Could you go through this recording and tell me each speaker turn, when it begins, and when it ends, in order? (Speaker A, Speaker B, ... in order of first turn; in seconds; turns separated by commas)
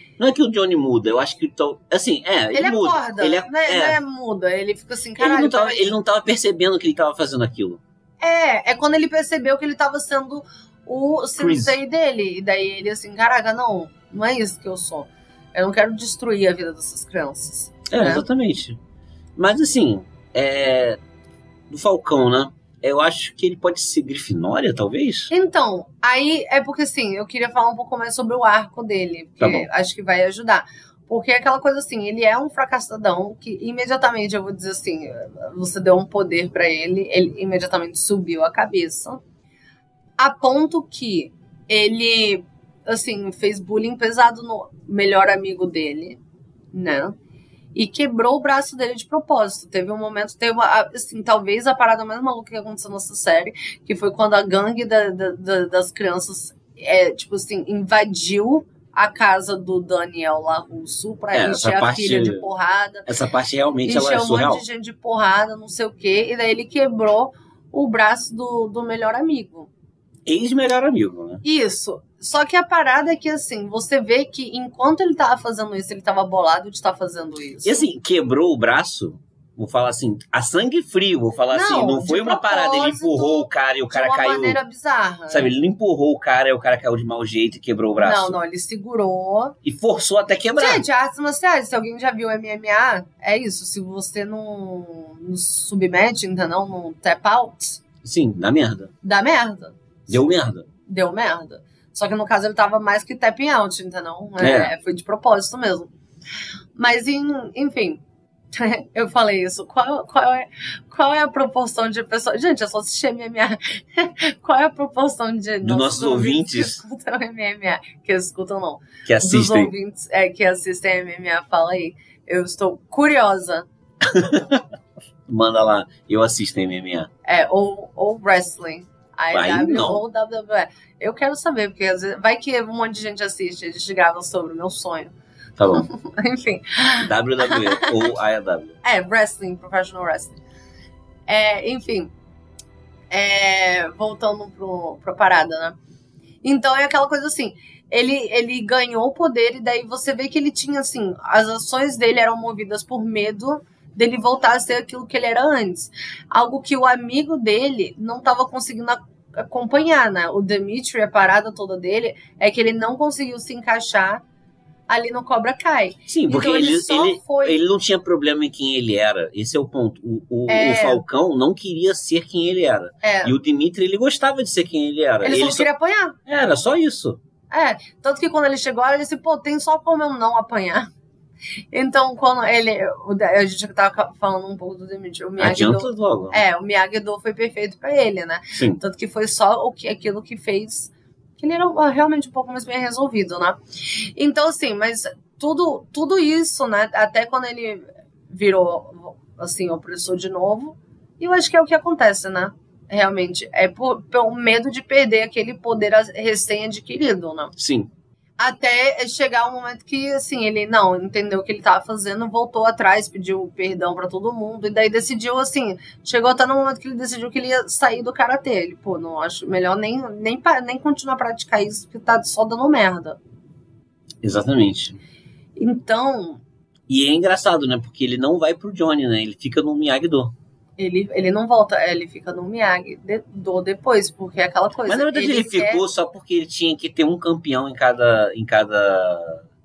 Speaker A: 0.2-4.0, Speaker B: 2.5-5.9, Speaker A: 5.2-7.8, Speaker B: 8.2-18.2, Speaker A: 11.4-11.8, Speaker A: 17.9-18.8, Speaker A: 19.4-21.0, Speaker A: 21.7-25.3, Speaker B: 25.3-39.2, Speaker A: 29.4-29.7, Speaker B: 40.2-46.2, Speaker B: 46.7-47.1, Speaker B: 47.7-63.1, Speaker A: 61.3-62.5, Speaker A: 63.1-64.6, Speaker B: 63.9-69.7, Speaker A: 70.2-71.4, Speaker B: 71.4-77.8, Speaker A: 77.6-84.6, Speaker B: 81.5-85.5, Speaker A: 85.3-88.4, Speaker B: 88.0-89.5, Speaker A: 89.6-90.8, Speaker B: 90.6-97.8, Speaker A: 98.0-98.9, Speaker B: 99.0-100.2, Speaker A: 100.1-100.7, Speaker B: 100.8-105.9, Speaker A: 104.4-104.7, Speaker B: 106.8-108.0, Speaker B: 108.5-123.7, Speaker A: 115.6-116.8, Speaker A: 119.0-119.7, Speaker A: 124.0-124.6, Speaker A: 125.3-127.1, Speaker B: 127.2-135.1, Speaker A: 129.3-130.0, Speaker A: 135.6-135.9, Speaker B: 135.7-138.1, Speaker A: 137.0-138.8, Speaker B: 138.8-140.4, Speaker B: 141.3-142.1, Speaker B: 143.1-145.8, Speaker B: 146.4-164.2, Speaker B: 164.9-167.6, Speaker A: 166.1-175.7, Speaker B: 170.5-171.0, Speaker B: 173.0-173.3, Speaker B: 175.2-176.2, Speaker A: 176.2-177.2, Speaker B: 177.5-180.9, Speaker B: 181.7-207.5, Speaker A: 185.4-186.4, Speaker A: 188.5-188.8, Speaker A: 207.6-207.9, Speaker B: 208.4-223.2, Speaker A: 224.2-225.0, Speaker B: 225.6-226.4, Speaker A: 226.9-230.3, Speaker B: 230.8-235.8, Speaker A: 234.9-239.4